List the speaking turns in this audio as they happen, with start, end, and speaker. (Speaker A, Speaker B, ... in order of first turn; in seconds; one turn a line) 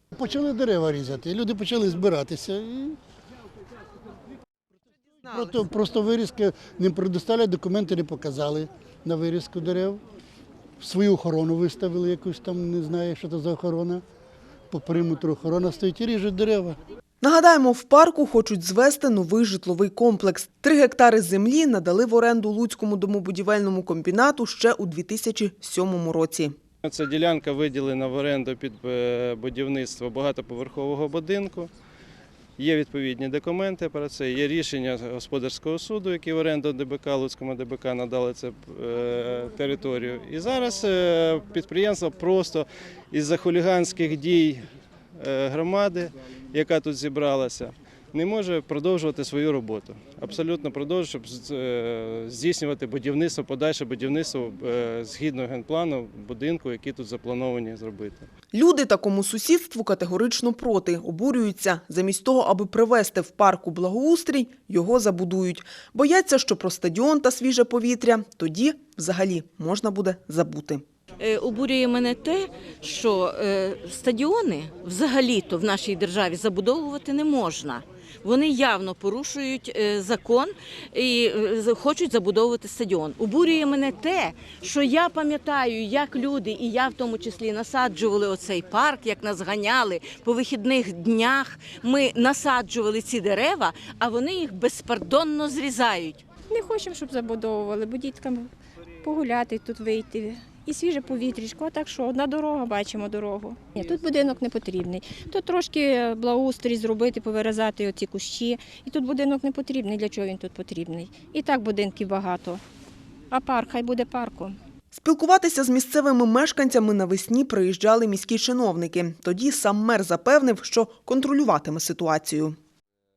Speaker A: 0.2-3.0
Speaker A: 5.2-10.0
Speaker A: 10.8-14.0
Speaker A: 14.7-16.8
Speaker B: 17.2-26.6
Speaker C: 26.8-31.7
Speaker C: 32.6-44.6
Speaker C: 45.2-58.3
Speaker B: 58.5-70.8
Speaker D: 71.2-96.2
Speaker E: 96.5-98.5
Speaker E: 99.0-112.6
Speaker E: 113.3-114.6
Speaker B: 114.9-122.6